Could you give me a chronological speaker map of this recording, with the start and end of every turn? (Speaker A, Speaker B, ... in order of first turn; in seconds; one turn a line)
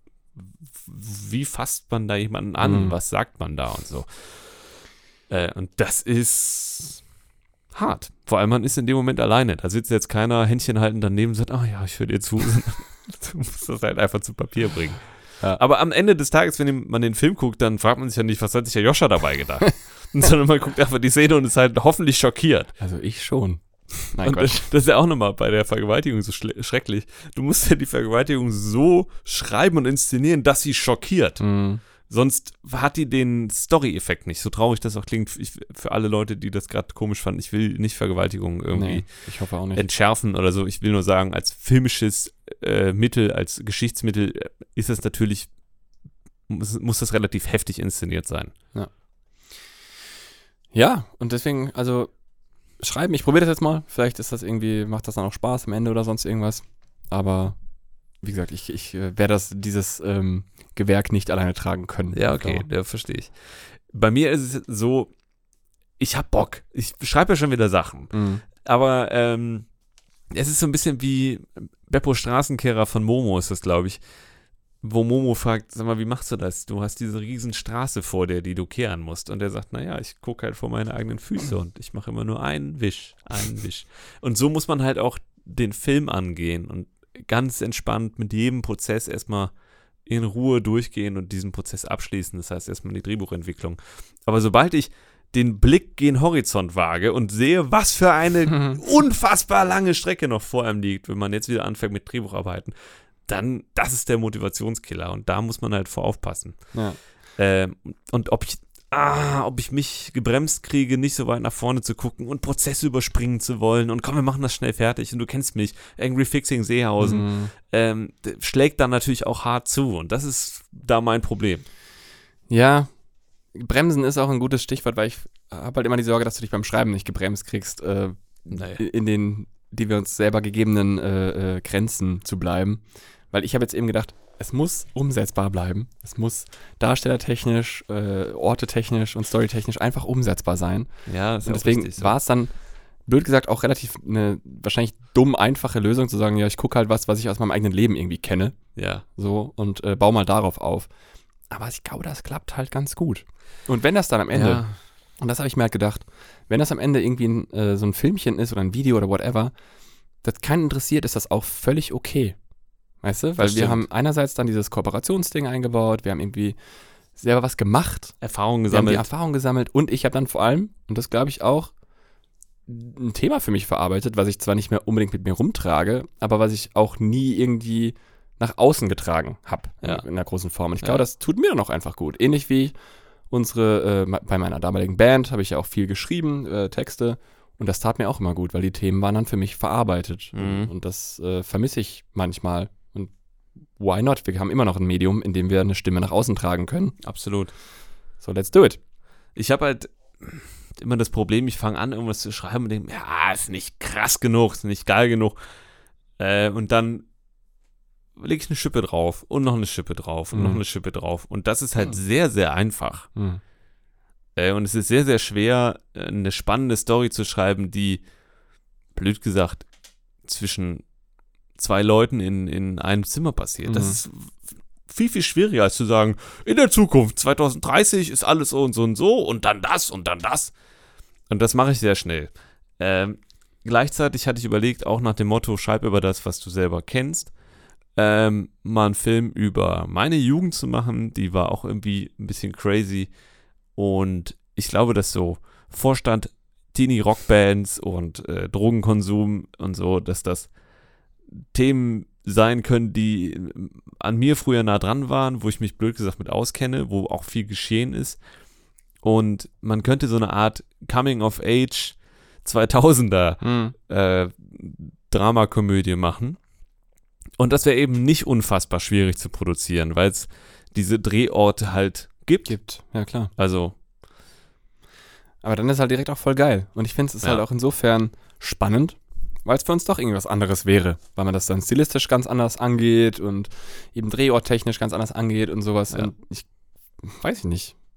Speaker A: 0.4-4.1
Speaker B: 2.6-3.0
Speaker A: 5.3-7.0
Speaker A: 7.7-22.7
Speaker B: 22.8-24.7
Speaker A: 24.2-31.4
Speaker B: 31.4-31.8
Speaker A: 32.0-39.1
Speaker B: 38.7-39.9
Speaker A: 39.7-45.5
Speaker A: 46.5-48.5
Speaker B: 50.7-52.1
Speaker B: 52.8-57.6
Speaker B: 58.2-62.7
Speaker A: 62.1-65.1
Speaker A: 66.0-69.7
Speaker B: 68.1-68.4
Speaker A: 70.3-74.0
Speaker A: 74.8-89.5
Speaker A: 90.1-102.7
Speaker A: 103.2-106.7
Speaker B: 106.7-107.0
Speaker A: 107.4-121.6
Speaker B: 117.0-117.5
Speaker B: 122.5-122.9
Speaker B: 123.5-140.9
Speaker A: 128.5-128.8
Speaker A: 141.1-142.1
Speaker B: 141.4-142.5
Speaker B: 143.1-148.6
Speaker A: 148.8-149.1
Speaker B: 149.2-150.9
Speaker B: 151.5-154.6
Speaker A: 154.3-154.8
Speaker B: 155.2-159.5
Speaker B: 160.2-162.4
Speaker B: 163.0-166.6
Speaker A: 163.4-163.8
Speaker B: 167.2-168.2
Speaker A: 168.2-169.1
Speaker B: 168.7-171.7
Speaker B: 172.7-182.7
Speaker B: 183.3-193.1
Speaker A: 190.3-190.7
Speaker B: 193.8-197.0
Speaker A: 197.0-197.5
Speaker B: 198.2-198.8
Speaker A: 199.4-205.4
Speaker A: 206.2-207.1
Speaker A: 208.2-213.1
Speaker B: 210.3-210.6
Speaker B: 213.2-213.4
Speaker A: 214.4-218.0
Speaker A: 218.9-219.7
Speaker A: 220.2-220.8
Speaker A: 221.6-224.4
Speaker B: 223.7-224.0
Speaker A: 224.9-230.5
Speaker A: 231.3-237.3
Speaker A: 238.0-243.1
Speaker A: 243.8-250.5
Speaker A: 251.4-258.2
Speaker A: 259.0-266.4
Speaker B: 263.4-263.8
Speaker A: 267.4-272.6
Speaker B: 272.5-273.3
Speaker A: 273.4-273.8
Speaker B: 275.4-286.5
Speaker B: 287.0-287.8